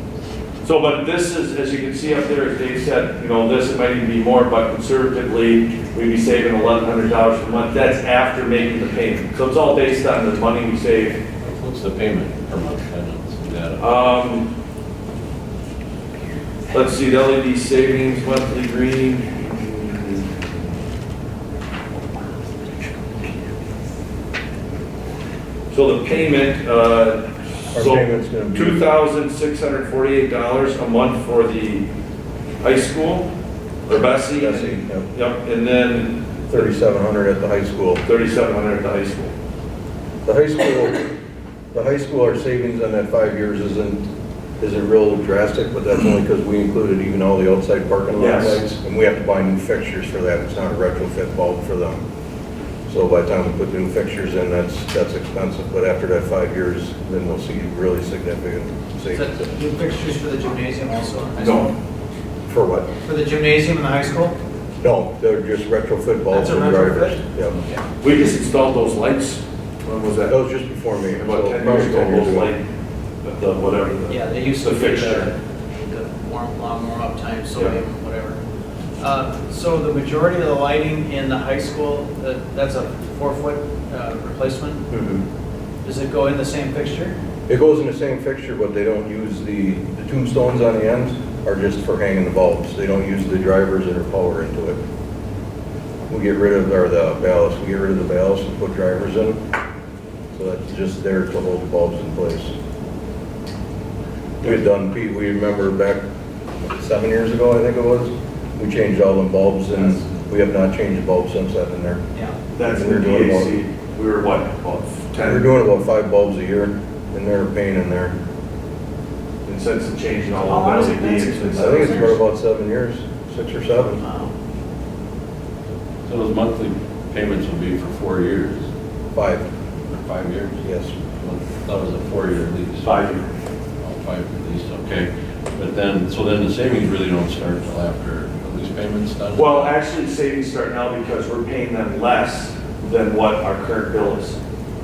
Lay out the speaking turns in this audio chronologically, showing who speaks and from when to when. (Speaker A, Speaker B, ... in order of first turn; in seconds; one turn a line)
Speaker A: 0.6-11.2
Speaker B: 11.4-13.8
Speaker A: 13.8-14.5
Speaker A: 16.7-20.5
Speaker A: 25.7-31.9
Speaker C: 27.7-28.9
Speaker A: 32.6-33.3
Speaker A: 33.9-36.2
Speaker C: 34.4-35.1
Speaker C: 36.5-38.0
Speaker A: 38.0-39.3
Speaker C: 40.2-41.1
Speaker C: 41.7-44.1
Speaker C: 44.6-52.0
Speaker A: 48.1-48.6
Speaker C: 52.9-59.5
Speaker D: 59.1-61.8
Speaker A: 61.4-61.7
Speaker C: 62.5-62.9
Speaker D: 63.0-64.4
Speaker C: 64.8-67.6
Speaker D: 66.3-67.8
Speaker A: 68.0-70.3
Speaker C: 70.3-72.5
Speaker A: 71.1-72.6
Speaker A: 73.2-75.3
Speaker D: 74.1-78.4
Speaker D: 79.0-84.8
Speaker C: 84.9-85.2
Speaker D: 85.8-87.2
Speaker C: 87.5-94.8
Speaker C: 96.1-99.4
Speaker C: 100.3-102.5
Speaker C: 104.4-106.0
Speaker C: 106.6-112.0
Speaker A: 112.5-115.5
Speaker C: 112.6-113.5
Speaker C: 115.2-118.1
Speaker A: 119.5-122.2
Speaker D: 120.4-122.1
Speaker C: 121.5-124.0
Speaker D: 124.0-124.3
Speaker B: 126.0-128.7
Speaker C: 129.1-129.5
Speaker B: 129.9-130.6
Speaker C: 130.6-130.9
Speaker B: 131.1-133.1
Speaker A: 132.8-133.2
Speaker B: 133.8-139.7
Speaker A: 139.3-144.4